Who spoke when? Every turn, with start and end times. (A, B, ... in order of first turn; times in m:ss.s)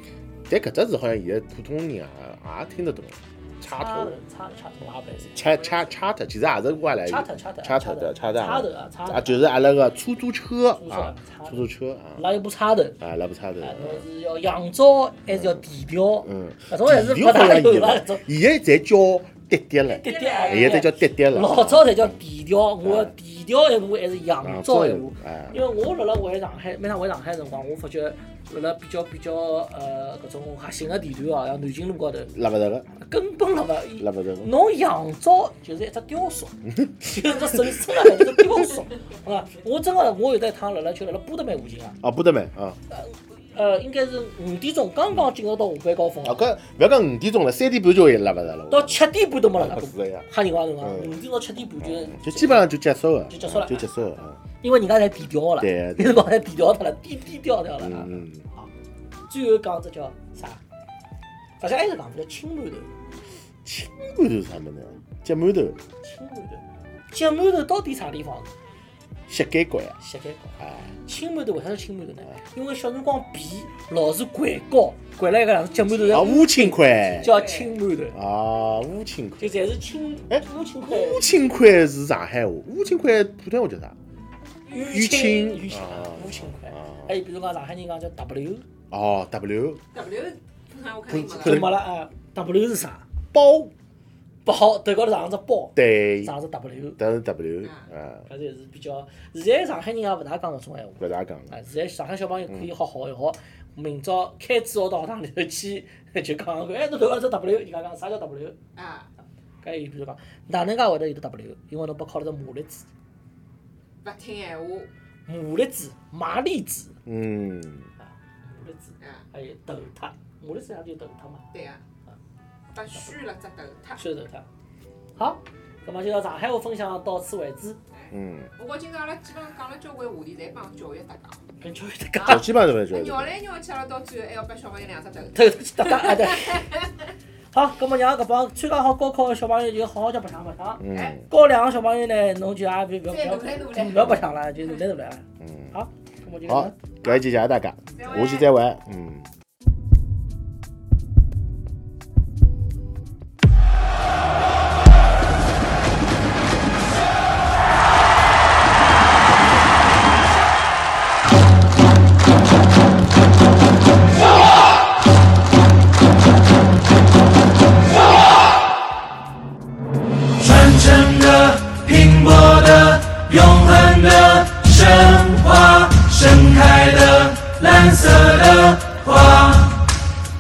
0:00.5-0:04.2 A
0:03.6-0:05.4 B
0:05.3-0:12.2 A
0:05.6-0:05.9 C
0:07.0-0:09.5 B
0:10.8-0:13.0 B
0:13.0-0:14.0 A
0:13.6-0:18.3 B
0:15.3-0:15.6 A
0:16.2-0:22.2 A
0:19.9-0:32.3 B
0:20.0-0:20.9 C
0:22.8-0:23.1 A
0:24.4-0:25.6 A
0:32.3-0:32.9 A
0:33.0-0:42.0 B
0:34.0-0:34.5 A
0:36.7-0:37.0 A
0:42.0-0:42.8 A
0:42.9-0:46.4 B
0:46.2-0:49.0 A
0:48.7-0:52.7 B
0:49.5-0:50.3 A
0:50.8-0:51.2 A
0:51.8-0:54.4 A
0:53.3-0:54.1 B
0:54.6-0:58.7 B
0:55.6-0:56.2 A
0:57.8-0:58.5 A
0:59.3-1:00.6 B
1:01.6-1:02.9 B
1:03.6-1:05.8 A
1:06.0-1:08.5 B
1:09.3-1:10.0 A
1:10.0-1:18.2 B
1:10.6-1:10.9 A
1:15.9-1:16.3 C
1:16.1-1:17.4 A
1:17.1-1:17.8 C
1:18.1-1:19.6 A
1:19.4-1:21.3 B
1:20.3-1:24.0 A
1:24.7-1:28.6 B
1:24.8-1:27.1 A
1:28.9-1:29.8 A
1:29.9-1:31.6 C
1:31.1-1:31.8 A
1:31.4-1:33.0 B
1:33.3-1:33.7 A
1:34.4-1:37.0 B
1:35.8-1:36.3 A
1:37.0-1:38.3 A
1:37.6-1:37.9 C
1:38.3-1:48.6 B
1:41.0-1:41.5 A
1:48.8-1:49.1 C
1:49.6-1:52.9 B
1:54.0-1:54.9 C
1:55.3-1:57.0 B
1:57.1-1:57.9 A
1:58.0-2:01.4 B
2:01.5-2:01.8 C
2:02.7-2:04.0 C
2:04.0-2:04.5 B
2:05.2-2:07.8 B
2:07.9-2:11.4 C
2:08.1-2:08.5 A
2:11.6-2:12.5 B
2:12.2-2:13.3 A
2:12.9-2:16.8 C
2:15.4-2:16.8 B
2:17.5-2:26.8 B
2:20.8-2:21.3 A
2:23.0-2:24.3 C
2:25.4-2:25.8 A
2:26.5-2:29.3 A
2:27.9-2:28.5 C
2:50.4-2:59.8 D